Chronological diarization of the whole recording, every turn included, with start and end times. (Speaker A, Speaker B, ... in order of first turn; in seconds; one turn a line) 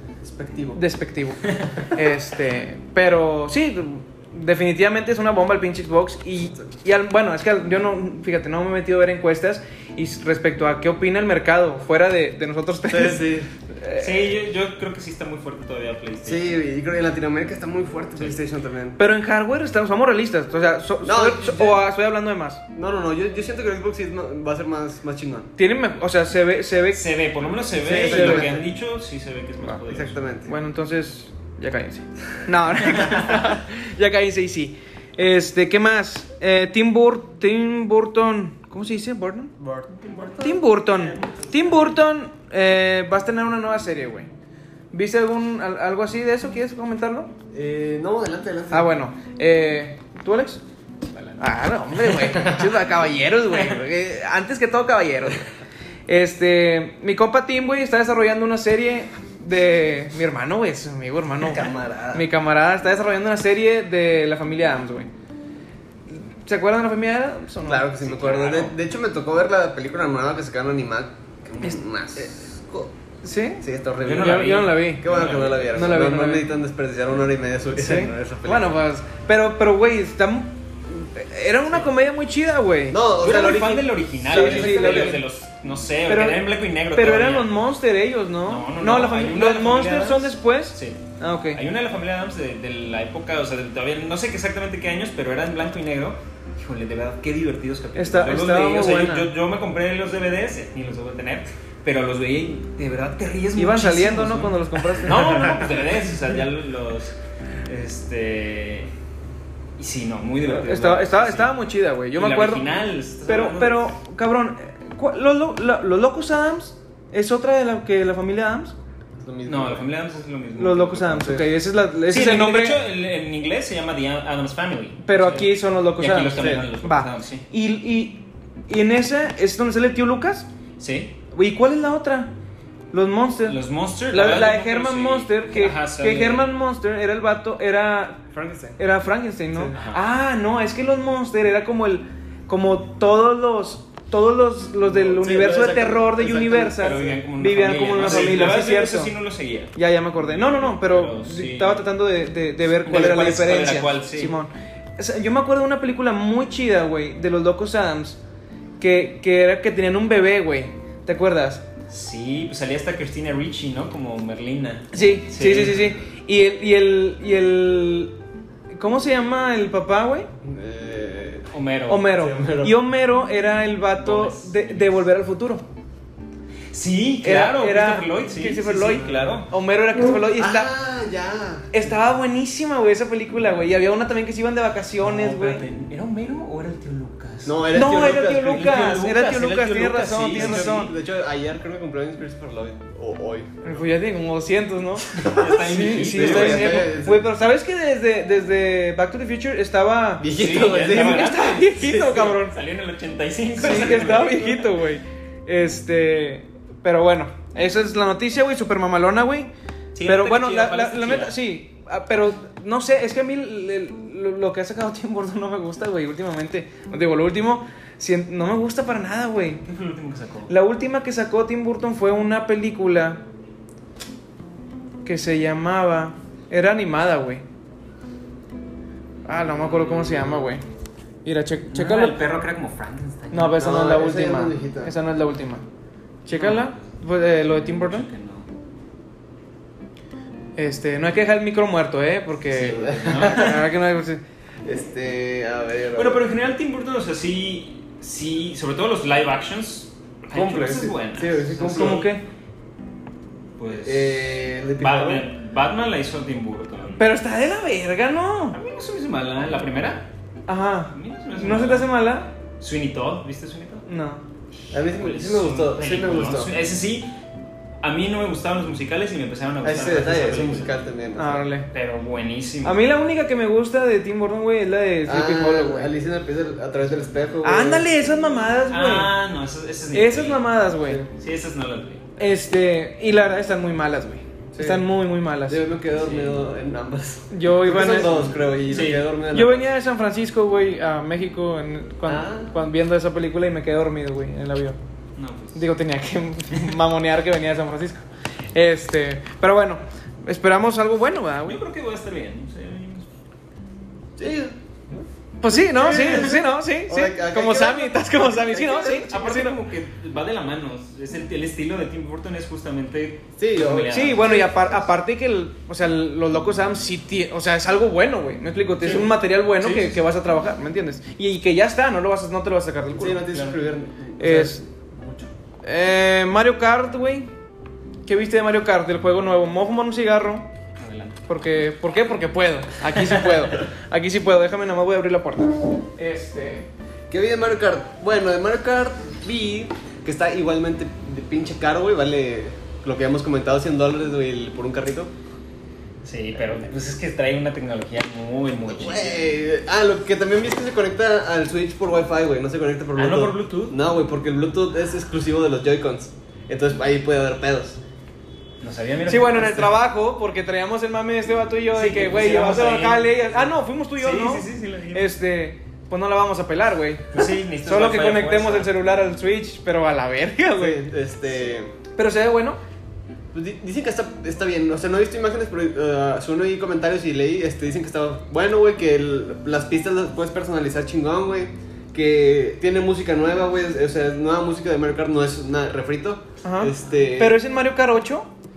Speaker A: 0.2-0.8
Speaker B: 0.7-14.3
Speaker A: 12.9-13.5
Speaker C: 13.9-16.4
Speaker A: 16.2-19.0
Speaker B: 19.0-22.6
Speaker A: 21.0-21.8
Speaker A: 22.7-25.5
Speaker B: 25.6-27.1
Speaker C: 26.9-30.2
Speaker A: 27.8-28.7
Speaker B: 27.8-28.5
Speaker A: 29.9-30.5
Speaker B: 30.4-39.5
Speaker A: 39.6-40.6
Speaker C: 40.1-40.4
Speaker B: 40.4-44.3
Speaker C: 41.0-41.6
Speaker B: 44.9-47.3
Speaker A: 47.5-48.9
Speaker B: 48.7-50.6
Speaker B: 51.4-55.5
Speaker B: 56.1-65.1
Speaker A: 61.4-62.3
Speaker B: 66.1-67.9
Speaker A: 67.6-72.9
Speaker C: 68.0-68.7
Speaker B: 73.2-75.0
Speaker A: 73.6-78.8
Speaker C: 74.0-75.8
Speaker B: 75.7-76.5
Speaker B: 77.7-83.0
Speaker A: 82.9-85.2
Speaker C: 83.2-87.6
Speaker B: 84.3-85.2
Speaker B: 86.1-91.6
Speaker C: 88.5-91.0
Speaker C: 91.5-107.1
Speaker B: 98.0-99.3
Speaker B: 103.5-105.6
Speaker C: 107.7-108.9
Speaker C: 109.8-111.5
Speaker B: 110.4-112.7
Speaker C: 112.1-113.9
Speaker B: 113.3-118.7
Speaker A: 119.2-119.9
Speaker C: 119.5-121.5
Speaker B: 120.6-122.8
Speaker C: 122.1-127.5
Speaker B: 125.0-130.5
Speaker A: 126.3-126.7
Speaker C: 130.8-131.1
Speaker B: 131.3-132.3
Speaker B: 132.9-133.6
Speaker C: 133.4-136.5
Speaker B: 134.1-138.2
Speaker A: 138.3-138.8
Speaker B: 138.8-149.1
Speaker A: 139.5-139.8
Speaker C: 139.7-140.0
Speaker A: 144.9-147.2
Speaker C: 146.8-151.8
Speaker A: 148.0-148.6
Speaker B: 149.7-158.2
Speaker C: 152.8-154.3
Speaker B: 158.8-161.6
Speaker C: 161.9-165.9
Speaker B: 164.9-168.1
Speaker B: 168.7-170.3
Speaker A: 170.4-171.5
Speaker C: 171.5-172.1
Speaker B: 171.9-175.6
Speaker A: 172.1-172.7
Speaker C: 174.0-175.0
Speaker C: 176.7-179.5
Speaker B: 177.2-180.7
Speaker A: 180.3-181.9
Speaker B: 181.7-185.6
Speaker C: 185.0-190.9
Speaker A: 187.4-189.0
Speaker B: 187.7-190.9
Speaker A: 190.3-193.5
Speaker B: 193.6-202.6
Speaker A: 195.1-197.3
Speaker C: 195.2-196.9
Speaker A: 200.2-201.4
Speaker C: 200.3-204.7
Speaker B: 203.6-209.5
Speaker C: 209.9-211.4
Speaker B: 210.1-219.6
Speaker C: 219.7-220.5
Speaker B: 220.5-223.2
Speaker B: 225.1-227.4
Speaker B: 229.3-230.6
Speaker A: 229.8-230.2
Speaker B: 231.2-232.2
Speaker C: 231.7-233.7
Speaker B: 233.3-235.6
Speaker A: 233.6-234.9
Speaker B: 236.3-238.1
Speaker C: 236.3-236.9
Speaker C: 237.4-238.5
Speaker B: 240.6-244.2
Speaker C: 242.5-243.7
Speaker A: 242.6-243.6
Speaker A: 244.6-246.2
Speaker C: 245.9-252.1
Speaker A: 250.3-252.1
Speaker B: 251.7-252.2
Speaker C: 253.6-257.1
Speaker A: 253.8-255.3
Speaker B: 256.9-258.6
Speaker C: 258.5-260.1
Speaker B: 260.5-262.3
Speaker C: 260.9-261.9
Speaker C: 262.6-263.9
Speaker B: 263.9-264.2
Speaker C: 264.7-267.1
Speaker A: 264.7-266.5
Speaker C: 267.8-270.7
Speaker A: 269.6-271.4
Speaker B: 271.2-271.7
Speaker C: 271.7-272.8
Speaker B: 272.6-275.9
Speaker A: 275.1-278.1
Speaker B: 277.4-279.1
Speaker C: 278.7-280.6
Speaker B: 279.9-281.0
Speaker A: 280.8-281.1
Speaker C: 281.1-282.2
Speaker B: 282.2-285.6
Speaker A: 284.5-284.9
Speaker A: 285.5-289.7
Speaker C: 285.9-286.4
Speaker B: 287.3-288.3
Speaker C: 287.8-289.1
Speaker B: 289.3-294.8
Speaker A: 292.1-292.5
Speaker C: 295.2-295.7
Speaker B: 295.6-298.0
Speaker B: 298.5-301.6
Speaker C: 301.4-303.1
Speaker A: 304.2-305.1
Speaker B: 305.4-309.6
Speaker A: 305.7-309.1
Speaker C: 306.0-306.3
Speaker C: 308.9-314.3
Speaker A: 313.4-314.9
Speaker B: 313.9-323.3
Speaker C: 319.6-320.0
Speaker A: 322.9-325.3
Speaker C: 323.3-323.6
Speaker B: 324.2-324.6
Speaker B: 325.6-327.3
Speaker B: 328.1-330.5
Speaker C: 330.8-331.2
Speaker B: 331.3-336.7
Speaker A: 337.1-345.1
Speaker C: 346.0-349.3
Speaker A: 348.7-357.8
Speaker C: 352.9-353.7
Speaker C: 358.6-359.7
Speaker B: 359.1-370.9
Speaker C: 361.7-365.1
Speaker C: 367.1-368.7
Speaker A: 370.6-371.7
Speaker B: 372.0-372.6
Speaker A: 373.3-387.4
Speaker B: 386.4-388.3